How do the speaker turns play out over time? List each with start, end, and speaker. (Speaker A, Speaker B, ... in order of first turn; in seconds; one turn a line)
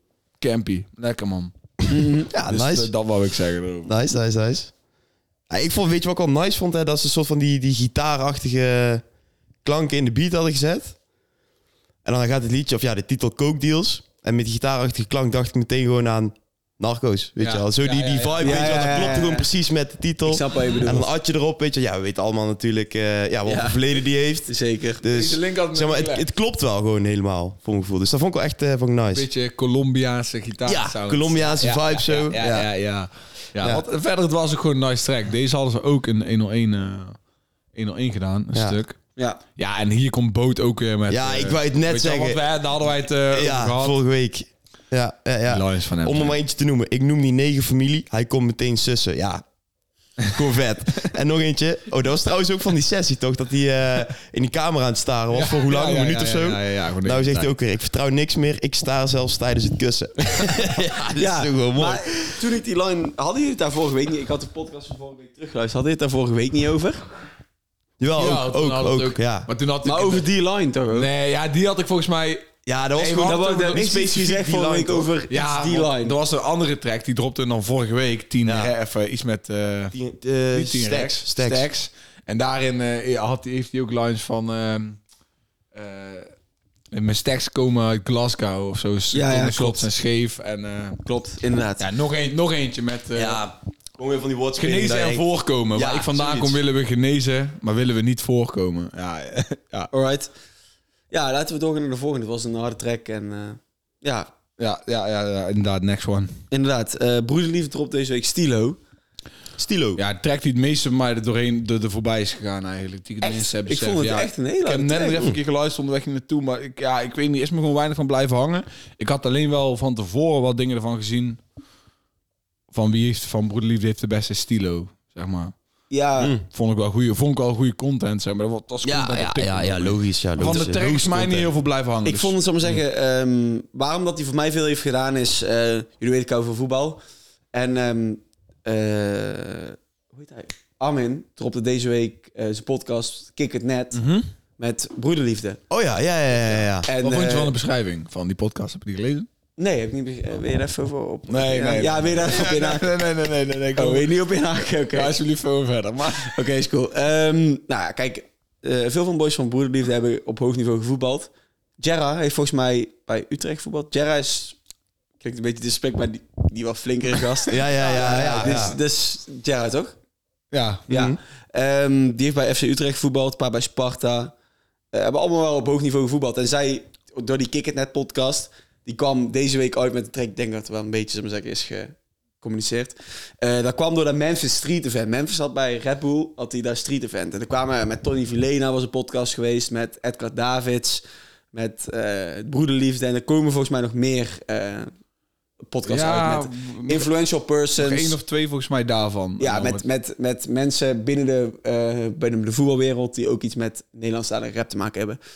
Speaker A: 0.4-1.5
Speaker B: 1.9-2.3
Speaker C: 2.3-2.9
Speaker A: 2.5-3.9
Speaker C: 3.9-4.7
Speaker C: 5.5-9.0
Speaker C: 9.6-11.0
Speaker C: 12.0-24.5
Speaker A: 17.4-19.1
Speaker B: 18.4-19.5
Speaker B: 20.2-21.1
Speaker B: 23.5-23.8
Speaker B: 24.4-25.0
Speaker C: 25.0-29.3
Speaker A: 25.1-26.3
Speaker A: 29.1-37.2
Speaker C: 30.7-32.7
Speaker A: 37.8-39.0
Speaker A: 39.5-44.0
Speaker C: 41.1-42.4
Speaker C: 43.3-49.4
Speaker A: 45.5-46.4
Speaker C: 50.3-62.3
Speaker A: 55.3-57.5
Speaker B: 61.2-67.0
Speaker C: 68.0-69.5
Speaker A: 68.2-70.3
Speaker B: 69.8-71.1
Speaker A: 70.9-74.1
Speaker C: 72.7-75.1
Speaker B: 73.2-76.2
Speaker A: 75.3-80.0
Speaker C: 78.5-78.7
Speaker C: 79.9-81.7
Speaker A: 80.5-85.0
Speaker A: 85.7-86.3
Speaker A: 86.9-91.0
Speaker B: 89.1-89.9
Speaker B: 91.0-91.9
Speaker A: 91.8-93.4
Speaker C: 93.1-96.6
Speaker A: 94.6-99.9
Speaker B: 99.9-100.3
Speaker B: 101.1-104.3
Speaker A: 104.6-106.3
Speaker B: 106.5-108.8
Speaker C: 109.6-110.0
Speaker A: 110.0-121.4
Speaker B: 113.2-115.3
Speaker A: 122.7-125.5
Speaker B: 125.9-126.3
Speaker A: 126.5-132.8
Speaker C: 128.8-131.5
Speaker B: 132.1-137.0
Speaker B: 137.5-144.0
Speaker A: 143.9-144.3
Speaker B: 144.6-145.6
Speaker C: 145.7-146.9
Speaker B: 146.9-147.5
Speaker A: 146.9-149.3
Speaker B: 149.6-152.9
Speaker A: 151.3-154.1
Speaker B: 153.8-155.1
Speaker A: 154.9-156.4
Speaker B: 156.2-164.6
Speaker B: 165.2-169.9
Speaker C: 167.5-168.8
Speaker A: 170.5-170.9
Speaker C: 170.9-171.2
Speaker B: 170.9-174.3
Speaker B: 174.9-194.9
Speaker B: 195.7-198.2
Speaker A: 195.9-197.1
Speaker A: 197.8-199.8
Speaker B: 199.4-205.2